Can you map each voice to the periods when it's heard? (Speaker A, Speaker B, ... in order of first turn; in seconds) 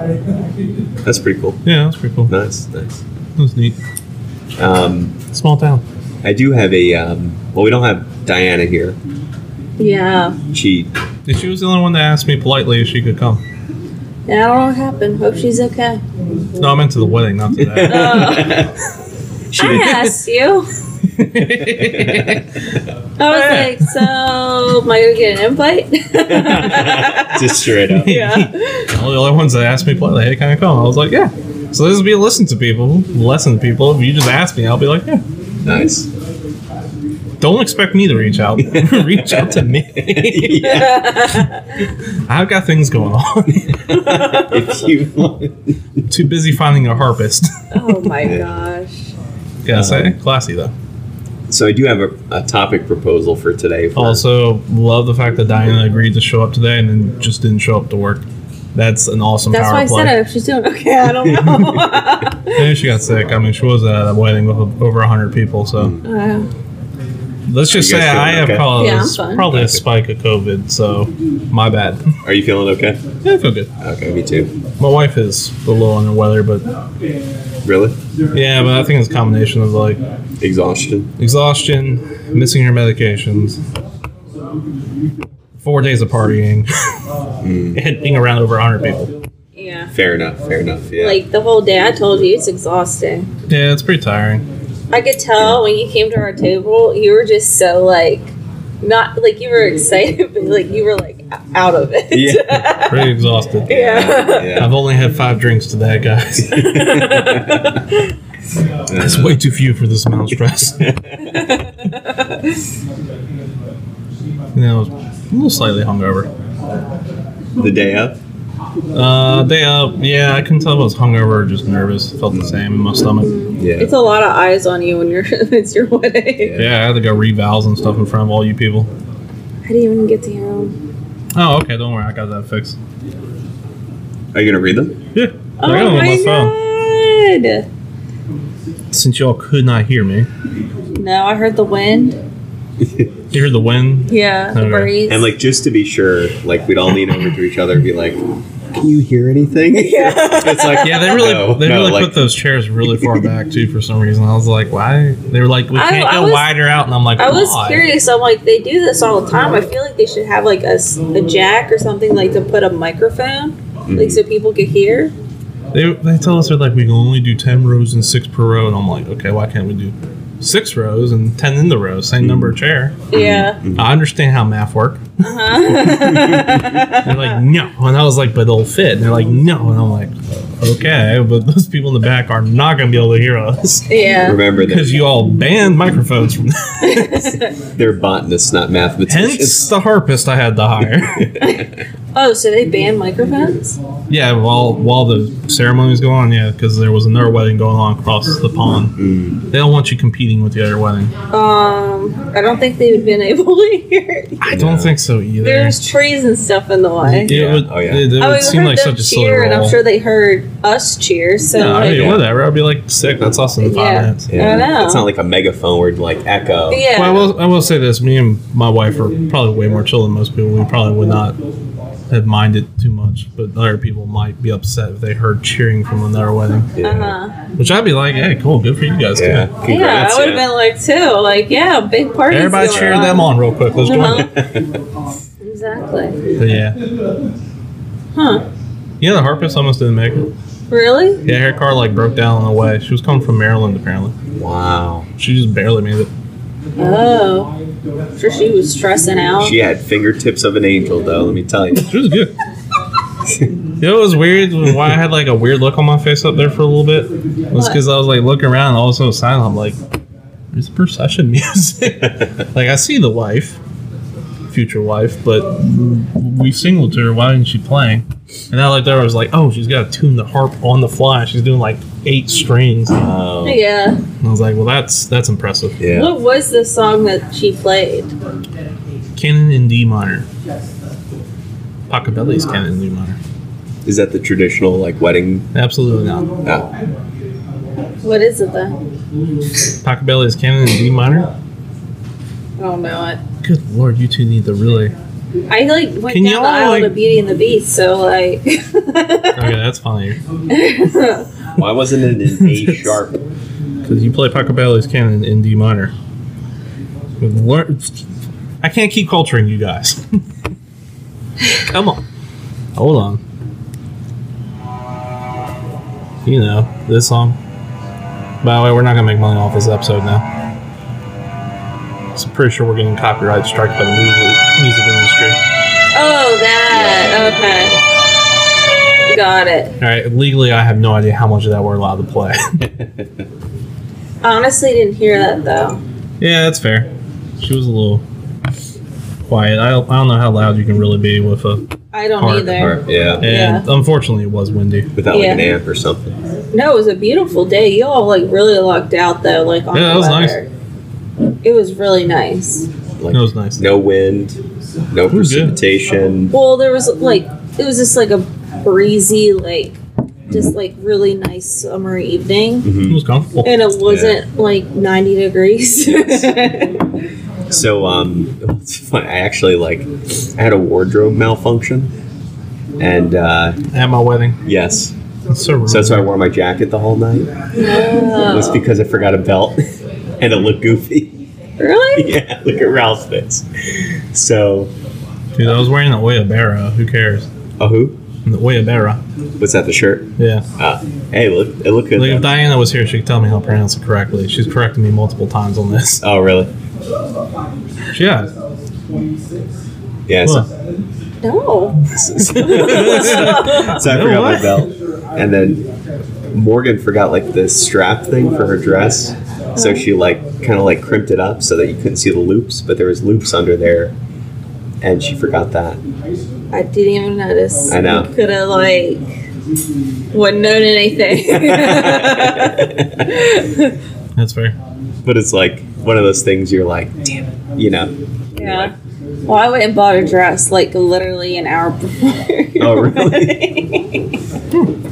Speaker A: 1.0-1.6, 2.3-3.0, 4.6-5.2, 6.2-8.9, 10.5-10.9, 17.6-18.8, 19.5-20.0, 21.5-22.4, 26.3-28.2, 35.6-36.1, 38.6-41.4, 43.9-46.0, 48.2-48.6, 49.7-50.1, 51.5-54.2, 65.8-66.0, 67.7-68.8, 69.5-69.8, 72.2-73.0, 73.8-74.5, 77.6-78.0, 80.4-81.1, 87.4-87.8, 89.9-91.2, 95.4-95.6, 102.1-102.7, 103.7-104.8, 106.4-107.8, 108.9-109.4, 110.3-111.4, 117.5-118.2, 122.3-122.6, 123.6-123.9, 126.4-126.7, 134.3-135.0, 142.8-143.1, 145.1-148.2, 148.7-152.3, 152.9-153.2, 163.9-164.2, 172.2-172.6, 173.1-173.9, 176.2-176.6, 184.2-185.0, 187.7-189.7, 191.0-191.8, 198.9-199.4, 204.5-205.0, 207.2-208.2, 211.8-212.3, 214.3-216.9, 226.8-227.2, 229.1-230.5, 232.7-233.0, 234.0-234.6, 244.3-245.1, 249.4-251.9, 272.9-273.6, 275.8-276.1, 283.8-285.5, 301.6-303.2, 326.7-327.2, 332.6-333.1, 342.5-343.2, 344.9-346.2, 353.0-356.3, 362.6-363.0, 363.8-364.2, 367.5-371.9, 372.8-373.6, 374.4-374.9, 375.6-377.3, 378.2-379.6, 380.2-381.2, 381.9-384.7, 387.6-388.0, 389.4-392.4, 396.0-396.5, 400.1-400.5, 401.9-405.6, 406.3-413.9, 414.8-415.8, 417.7-418.1, 421.3-423.1, 425.0-428.7, 432.6-433.4
Speaker B: 1.6-2.3, 3.4-3.8, 5.3-5.8, 11.2-13.4, 16.6-18.5, 19.6-20.1, 21.1-22.5, 23.3-23.9, 27.9-35.2, 37.4-40.6, 42.3-44.0, 46.1-48.0, 49.6-50.7, 53.9-58.2, 58.7-60.1, 62.5-66.0, 67.5-72.0, 73.2-73.7, 74.8-76.7, 78.3-80.0, 81.2-83.6, 85.6-86.7, 87.7-89.2, 93.5-94.5, 102.8-103.8, 104.5-107.2, 109.0-110.9, 114.5-116.3, 118.9-123.3, 126.6-128.9, 131.3-132.8, 135.1-136.5, 138.9-140.3, 143.3-144.9, 150.8-157.8, 165.7-173.0, 173.8-175.1, 177.0-183.9, 184.6-187.3, 189.1-191.3, 194.1-198.9, 199.5-201.1, 204.4-205.8, 207.1-209.8, 211.5-214.3, 216.9-221.4, 222.1-226.7, 227.6-229.5, 232.3-234.3, 236.4-236.8, 239.0-240.3, 241.2-244.2, 245.2-246.1, 251.7-252.3, 253.8-259.8, 260.5-263.6, 264.5-273.0, 274.2-275.8, 279.1-280.2, 281.9-283.2, 285.5-286.3, 289.8-291.3, 293.4-294.9, 296.1-296.9, 299.4-300.2, 302.4-302.8, 303.9-305.9, 307.2-308.0, 308.6-310.2, 311.5-312.0, 312.7-313.2, 316.2-317.4, 318.4-320.2, 322.1-325.4, 329.8-332.6, 336.2-338.0, 339.2-341.7, 342.2-344.9, 349.7-350.4, 353.1-353.7, 355.1-355.6, 362.9-363.6, 373.7-374.4, 375.3-376.1, 385.3-387.3, 388.2-389.0, 390.2-390.4, 391.9-396.0, 397.9-398.3, 400.2-400.5, 402.4-404.7, 424.1-424.6
Speaker C: 9.8-10.4, 14.3-16.0, 17.8-18.6, 19.5-20.7, 23.2-27.4, 28.1-28.9, 40.5-41.6, 44.1-44.5, 47.7-49.1, 59.5-62.6, 66.0-66.5, 68.8-69.5, 89.5-89.9, 91.0-93.3, 94.9-103.1, 103.7-104.6, 106.8-107.4, 111.2-112.4, 123.2-126.6, 129.6-130.8, 135.6-137.7, 140.9-142.2, 144.1-145.3, 149.7-151.2, 155.7-156.5, 157.2-165.1, 173.1-173.6, 175.2-177.4, 183.9-184.4, 186.8-187.5, 191.4-193.8, 201.3-204.5, 205.4-207.3, 208.2-212.2, 213.6-215.1, 216.7-217.3, 226.8-227.3, 229.6-234.3, 235.4-236.2, 238.1-238.4, 240.7-241.2, 246.8-247.5, 248.2-249.6, 257.5-257.8, 273.4-274.0, 275.9-278.1, 288.0-288.8, 292.6-293.2, 295.5-299.6, 300.5-301.3, 325.9-327.8, 329.1-329.7, 334.2-335.8, 341.9-343.7, 345.1-345.5, 346.5-350.5, 351.4-352.7, 356.3-362.7, 363.4-366.9, 377.6-378.6, 381.6-382.1, 401.2-401.8, 402.4-403.8, 409.6-409.9, 416.5-419.0, 420.1-423.7, 428.4-428.7, 429.3-434.1